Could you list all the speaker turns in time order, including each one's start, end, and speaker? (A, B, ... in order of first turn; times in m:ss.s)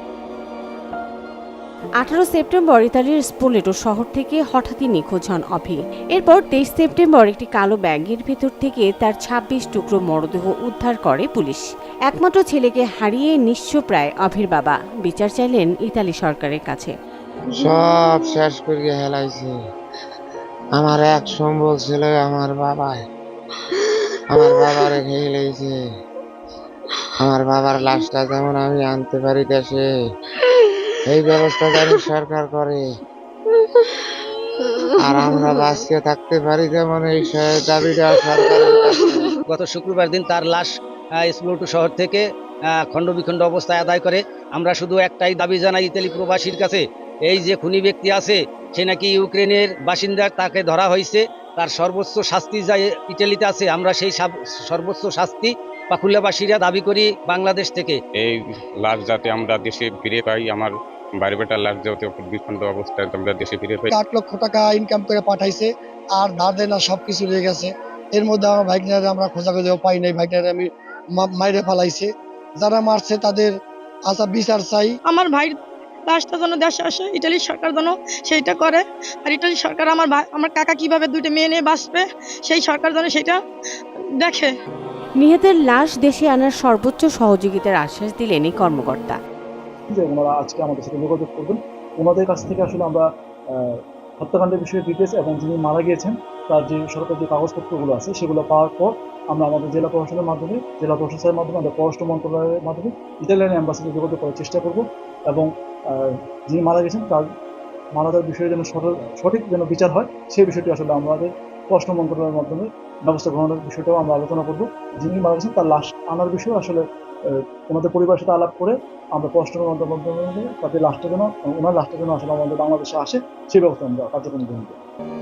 0:02.0-0:16.9 A
0:17.5-0:19.6 B
0:20.8-0:23.0 B
0:24.3-0:25.8 B
0:27.2-0:29.9 B
0:31.1-0:32.9 B
0:35.0-0:39.4 B
0:39.5-0:42.2 C
0:42.8-0:58.0 C
0:58.2-1:03.9 D
1:03.9-1:13.5 E
1:14.1-1:15.0 E
1:16.1-1:18.8 F
1:19.3-1:23.3 F
1:25.2-1:29.2 A
1:29.9-1:47.3 G
1:47.9-2:04.8 G